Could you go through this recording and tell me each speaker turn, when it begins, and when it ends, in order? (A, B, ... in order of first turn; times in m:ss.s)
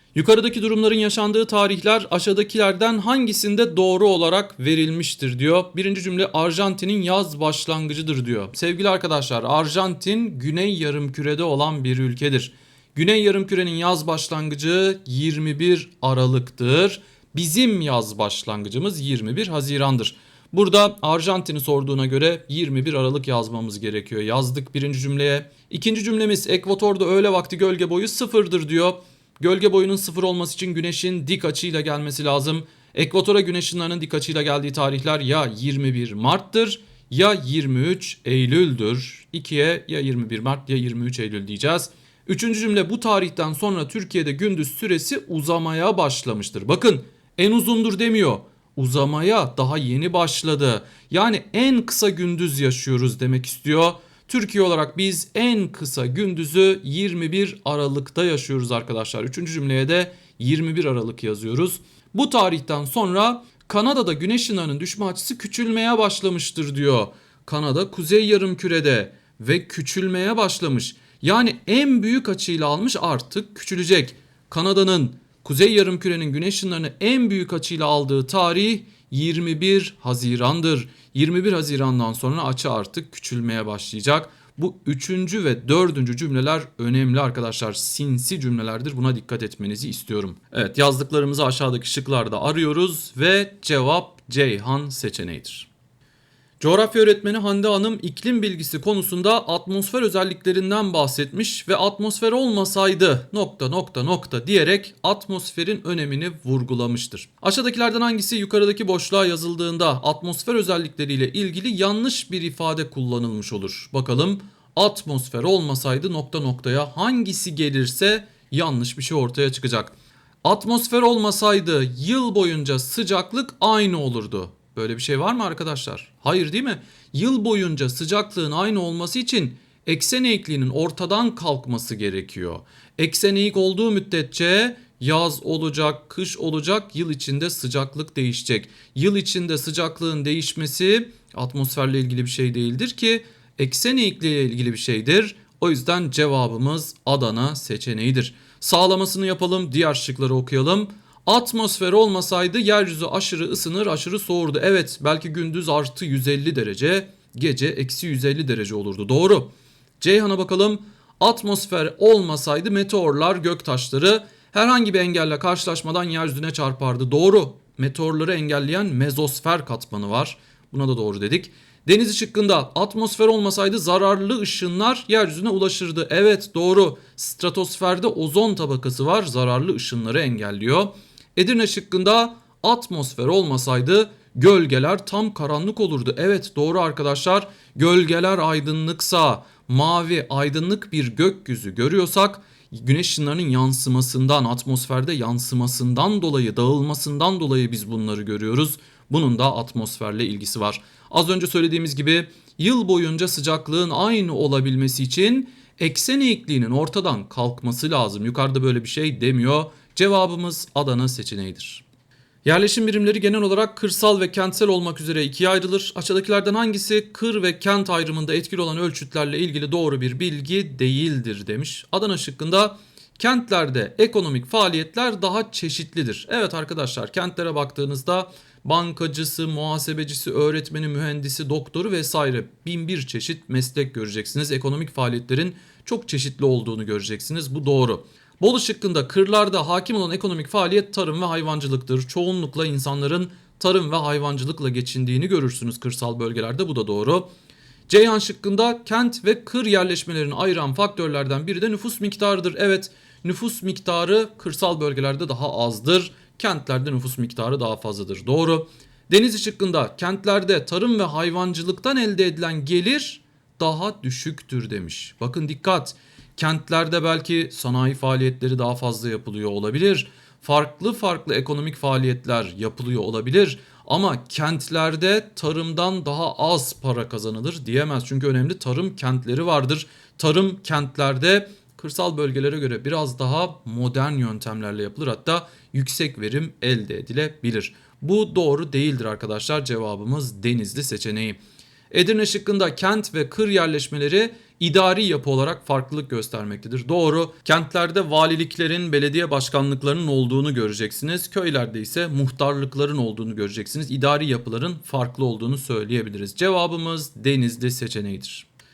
0:00.1-1:35.7 A
1:36.6-3:31.8 A
3:32.4-4:07.3 A
4:07.9-4:51.4 A
4:51.9-5:08.4 A